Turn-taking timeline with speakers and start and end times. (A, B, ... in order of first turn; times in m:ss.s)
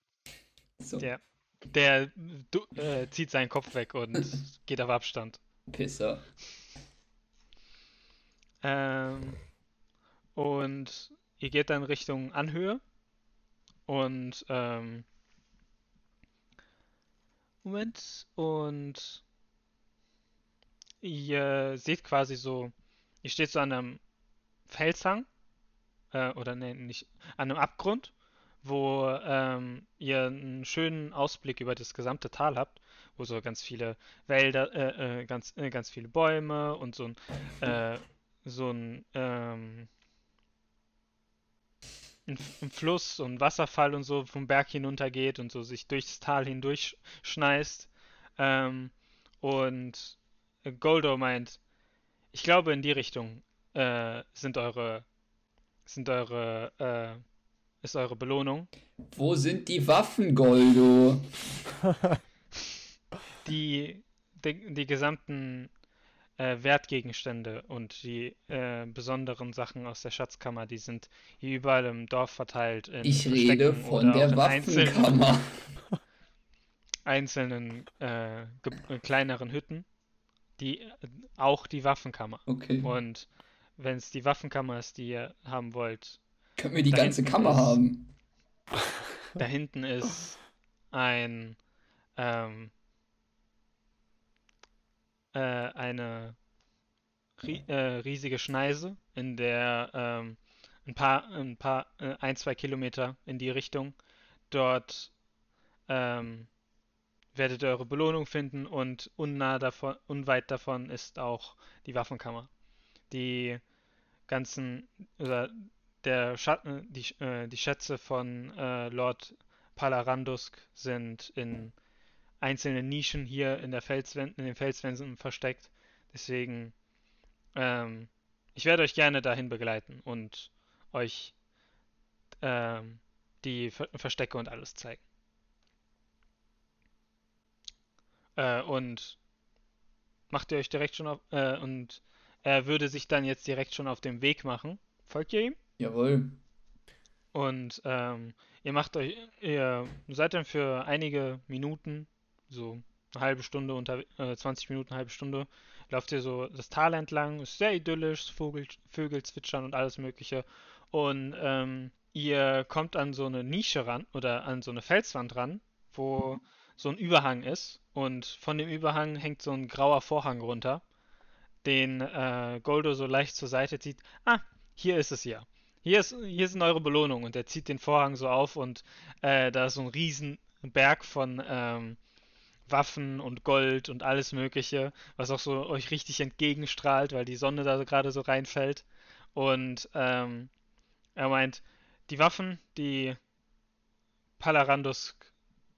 0:00.8-0:01.1 A
0:01.0-0:05.4 B
0:05.7-0:06.3 A
0:08.6-0:09.4 B
0:10.4-0:12.8 B
0:13.9-0:15.0 B
0:17.6-0:19.2 B
0:21.0-0:24.0 B
0:24.7-0:25.3 B
0:26.1-0:39.9 B
0:42.3-0:51.6 B
0:52.3-0:55.1 B
0:55.9-0:57.2 B
0:57.8-0:58.7 B
0:59.1-1:01.4 A
1:03.4-1:05.7 B
1:06.4-1:15.2 B
1:13.0-1:15.7 A
1:17.1-1:19.9 B
1:20.6-1:26.2 B
1:22.5-1:22.9 A
1:26.6-1:28.1 A
1:26.9-1:27.8 B
1:29.4-1:30.4 B
1:30.9-1:31.6 B
1:32.2-1:32.7 B
1:35.3-1:36.4 B
1:37.4-1:44.0 B
1:44.5-1:45.1 B
1:45.9-1:46.5 B
1:47.3-1:52.5 B
1:53.1-1:53.6 B
1:54.3-2:01.8 B
2:02.4-2:06.7 B
2:07.6-2:11.3 B
2:12.4-2:15.0 B
2:18.4-2:19.2 B
2:20.3-2:25.6 B
2:25.8-2:26.4 A
2:27.3-2:50.8 B
2:51.6-3:02.0 B
3:02.7-3:10.5 B
3:11.2-3:13.2 B
3:14.4-3:15.3 B